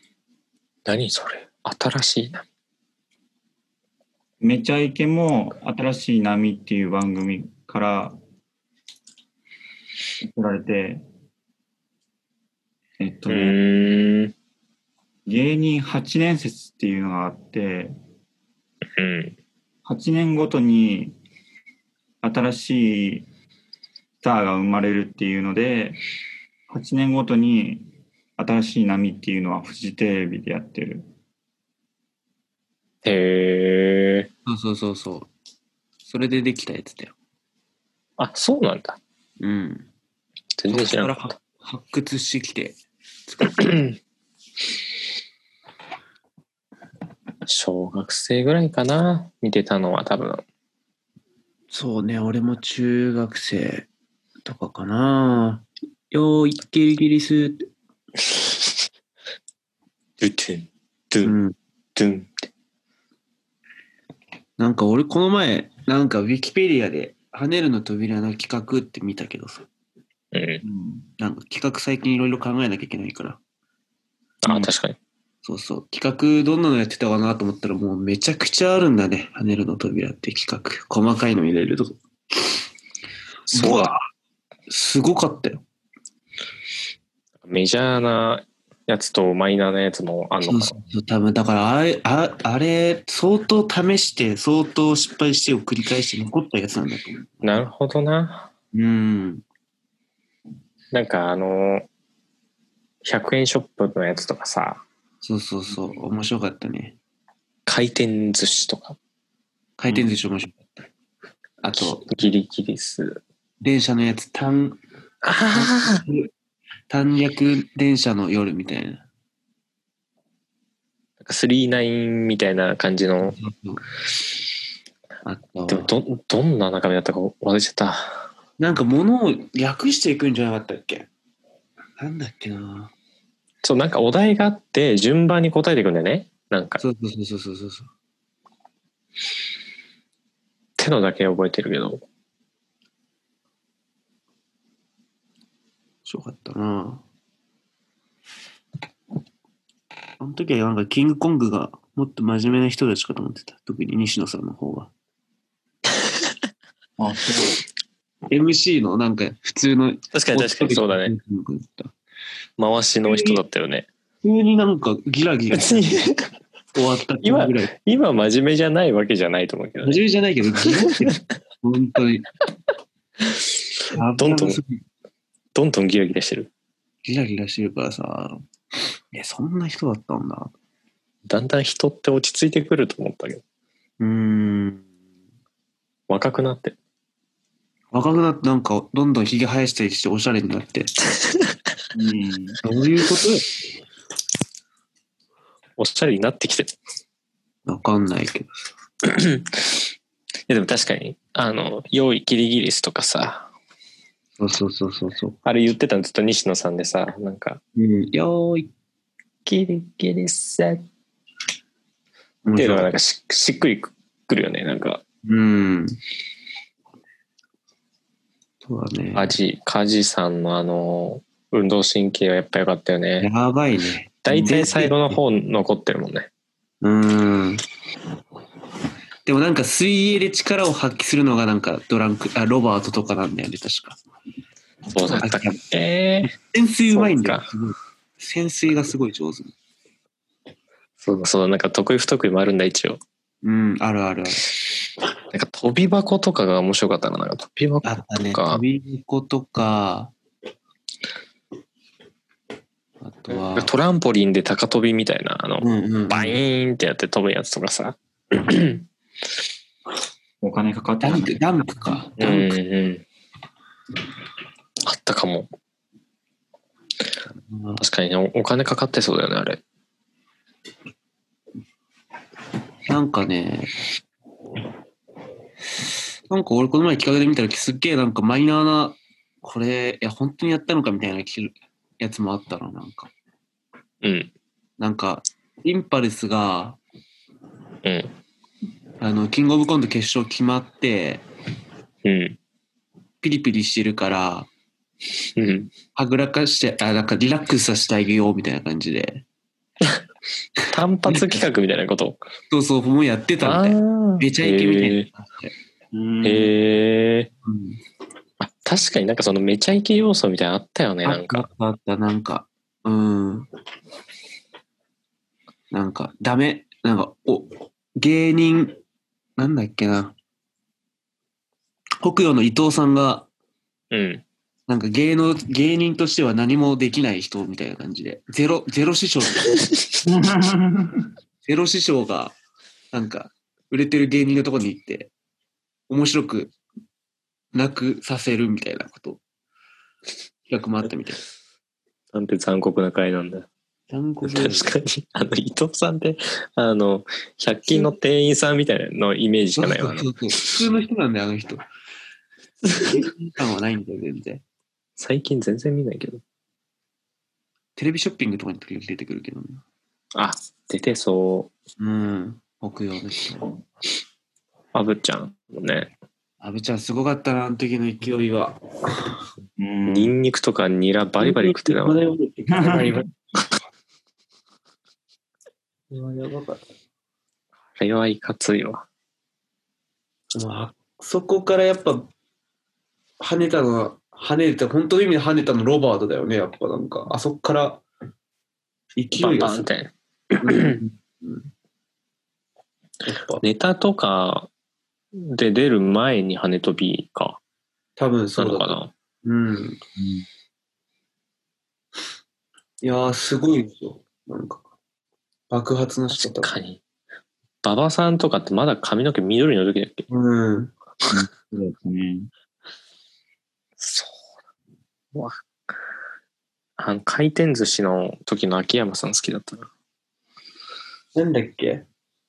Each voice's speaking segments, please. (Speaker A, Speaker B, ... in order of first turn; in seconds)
Speaker A: 0.9-2.4, 13.3-14.3, 19.0-19.4, 33.0-34.3, 38.2-39.0, 40.6-41.2, 43.6-44.0, 47.5-50.4, 60.2-61.4, 62.0-62.3, 70.3-70.6, 74.4-75.0, 83.5-83.9, 87.4-90.8, 97.4-98.5, 100.9-101.9, 103.0-104.8, 107.7-109.0, 111.8-113.2, 115.2-116.0, 121.2-123.4, 125.7-128.3, 133.6-136.8, 140.8-142.0, 160.1-161.1, 162.6-163.9, 165.5-166.3, 167.2-170.0, 173.8-174.6, 175.5-176.5, 181.3-183.4, 186.1-186.8, 195.8-196.8, 199.0-199.8, 200.5-203.5, 205.4-207.6, 209.5-210.9, 212.6-215.0, 219.2-223.3, 224.2-226.3, 234.9-236.4, 236.9-237.5, 241.0-243.0, 245.3-248.6, 253.6-258.9, 262.2-263.0, 264.8-265.5, 267.8-269.6, 284.0-284.3, 287.8-288.1, 292.0-292.4, 295.4-295.7, 300.6-302.2, 303.4-305.1, 306.2-307.3, 308.4-311.5, 323.9-324.2, 342.1-343.5, 344.2-350.5, 352.7-353.1, 355.0-356.2, 360.1-361.5, 364.7-365.9, 369.9-372.0, 372.7-373.1, 377.8-378.9, 389.2-390.8, 393.4-394.5, 395.1-397.4, 398.4-398.9, 406.1-406.8, 407.6-410.1, 413.8-414.1, 415.1-415.4, 416.8-419.7
Speaker B: 4.4-8.2, 10.2-11.0, 13.0-13.6, 15.3-17.9, 19.9-21.2, 22.2-23.3, 24.2-26.0, 26.7-31.1, 70.6-71.1, 157.0-157.6, 191.9-192.6, 260.4-261.4, 305.9-306.5, 330.1-331.1, 369.6-370.1, 372.5-373.0, 400.0-400.2, 411.1-412.3
Speaker C: 34.5-35.3, 36.1-37.1, 39.4-39.9, 40.7-42.8, 43.3-43.7, 51.7-53.9, 54.5-57.7, 61.2-61.6, 64.6-69.7, 71.2-73.4, 75.4-82.0, 83.5-84.0, 84.7-85.6, 90.5-97.7, 98.7-99.4, 105.2-107.0, 109.8-110.9, 111.6-112.1, 113.6-114.8, 115.5-116.3, 116.9-119.0, 123.3-123.8, 125.2-125.9, 128.6-131.1, 132.0-132.9, 136.8-137.9, 146.1-147.0, 150.2-154.9, 158.3-161.9, 163.1-163.4, 164.2-166.1, 166.8-167.7, 169.8-172.3, 173.9-174.8, 177.1-178.4, 179.1-180.5, 184.0-184.9, 187.9-190.9, 192.6-193.5, 197.7-198.5, 204.4-205.4, 207.8-208.7, 212.4-212.9, 215.2-216.0, 218.6-219.3, 223.2-225.2, 226.8-227.6, 229.2-234.0, 235.1-235.6, 236.2-239.6, 243.4-244.5, 247.8-250.1, 253.0-253.7, 255.6-256.4, 261.0-262.6, 267.3-267.8, 272.9-273.8, 276.3-283.1, 284.8-286.8, 289.0-291.2, 293.2-294.5, 295.9-299.2, 302.5-305.5, 307.4-307.8, 311.1-313.5, 315.7-318.8, 319.4-320.2, 322.0-323.3, 324.7-329.6, 331.4-332.4, 332.9-335.1, 335.9-336.5, 337.5-339.2, 340.5-341.2, 343.9-344.7, 349.6-351.6, 352.8-354.4, 357.8-359.6, 361.8-363.6, 366.4-369.1, 371.2-373.0, 375.9-376.6, 380.3-382.1, 383.2-387.8, 389.0-389.7, 390.4-391.5, 393.1-393.4, 398.0-399.8, 402.8-404.7, 405.5-406.5, 410.1-410.7, 421.1-421.9